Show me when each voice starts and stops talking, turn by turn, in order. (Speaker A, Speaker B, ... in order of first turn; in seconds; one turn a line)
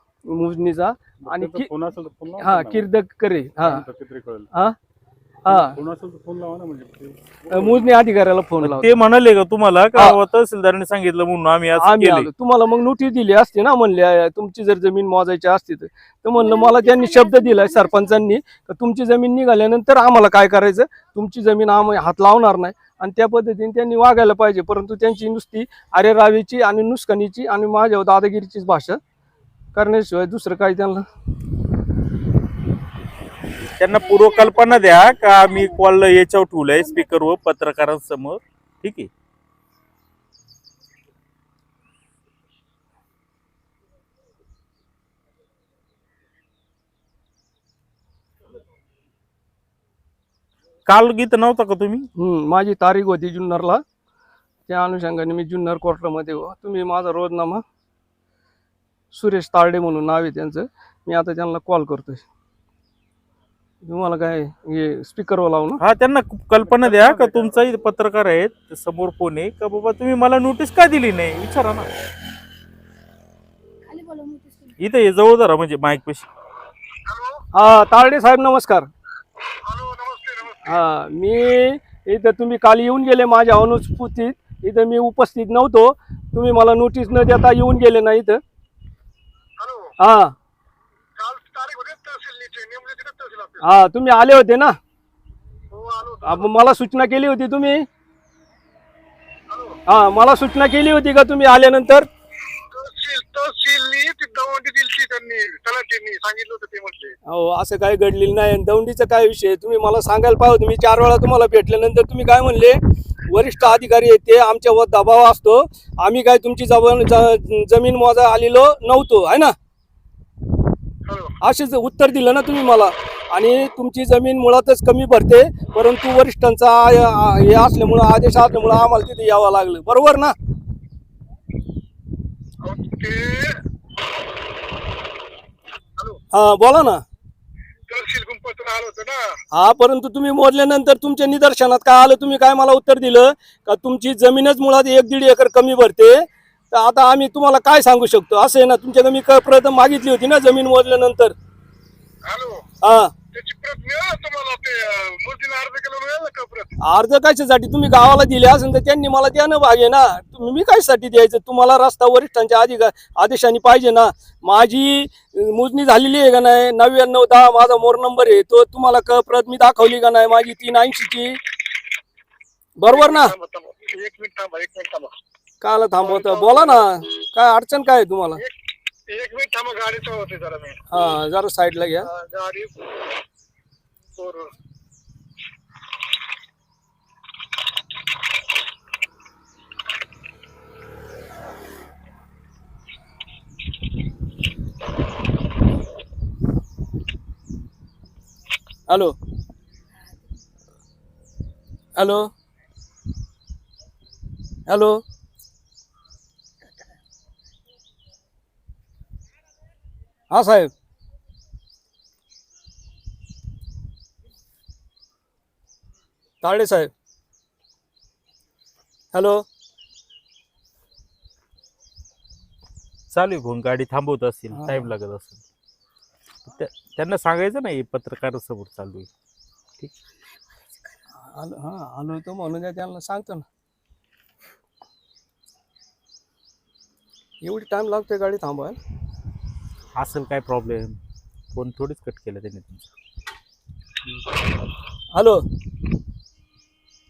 Speaker A: 0.3-1.7
Speaker B: 1.3-2.9
Speaker A: 2.4-3.8
Speaker B: 3.6-4.5
Speaker A: 5.5-5.8
Speaker B: 5.5-7.9
Speaker A: 7.5-8.9
Speaker C: 8.6-12.3
Speaker A: 11.8-29.0
Speaker D: 16.4-18.2
Speaker A: 29.8-31.1
Speaker C: 33.8-39.1
Speaker D: 34.0-35.8
Speaker D: 36.8-37.1
Speaker C: 50.9-52.1
Speaker A: 52.2-53.8
Speaker A: 54.7-57.6
Speaker A: 59.1-62.2
Speaker A: 63.8-65.8
Speaker C: 65.8-71.9
Speaker B: 66.6-67.7
Speaker D: 73.9-74.7
Speaker C: 74.8-76.3
Speaker E: 77.1-77.4
Speaker A: 77.5-78.9
Speaker E: 79.6-80.8
Speaker A: 80.6-88.4
Speaker E: 89.6-89.9
Speaker A: 90.0-90.3
Speaker E: 91.2-93.7
Speaker A: 93.6-94.8
Speaker E: 95.7-96.5
Speaker A: 96.2-97.9
Speaker E: 99.5-99.8
Speaker A: 99.9-102.1
Speaker E: 102.7-107.2
Speaker A: 107.3-119.5
Speaker E: 121.1-121.3
Speaker A: 121.4-130.3
Speaker E: 132.6-133.6
Speaker A: 136.3-137.0
Speaker E: 137.9-139.2
Speaker A: 139.5-151.3
Speaker E: 152.2-152.6
Speaker A: 152.8-153.1
Speaker E: 153.3-156.8
Speaker A: 156.8-171.4
Speaker A: 172.8-173.3
Speaker E: 172.8-175.1
Speaker A: 175.6-178.4
Speaker E: 176.0-176.9
Speaker E: 179.1-180.8
Speaker A: 180.9-182.1
Speaker E: 182.1-182.7
Speaker E: 184.2-184.5
Speaker A: 198.9-199.2
Speaker A: 202.0-202.3
Speaker A: 204.7-205.0
Speaker A: 210.3-210.7
Speaker A: 216.4-216.9
Speaker A: 219.1-219.4
Speaker C: 223.1-225.4
Speaker A: 224.5-224.9
Speaker C: 226.5-229.1
Speaker A: 231.3-233.4
Speaker A: 237.4-238.8
Speaker C: 240.0-241.0
Speaker C: 241.5-242.9
Speaker A: 245.2-245.4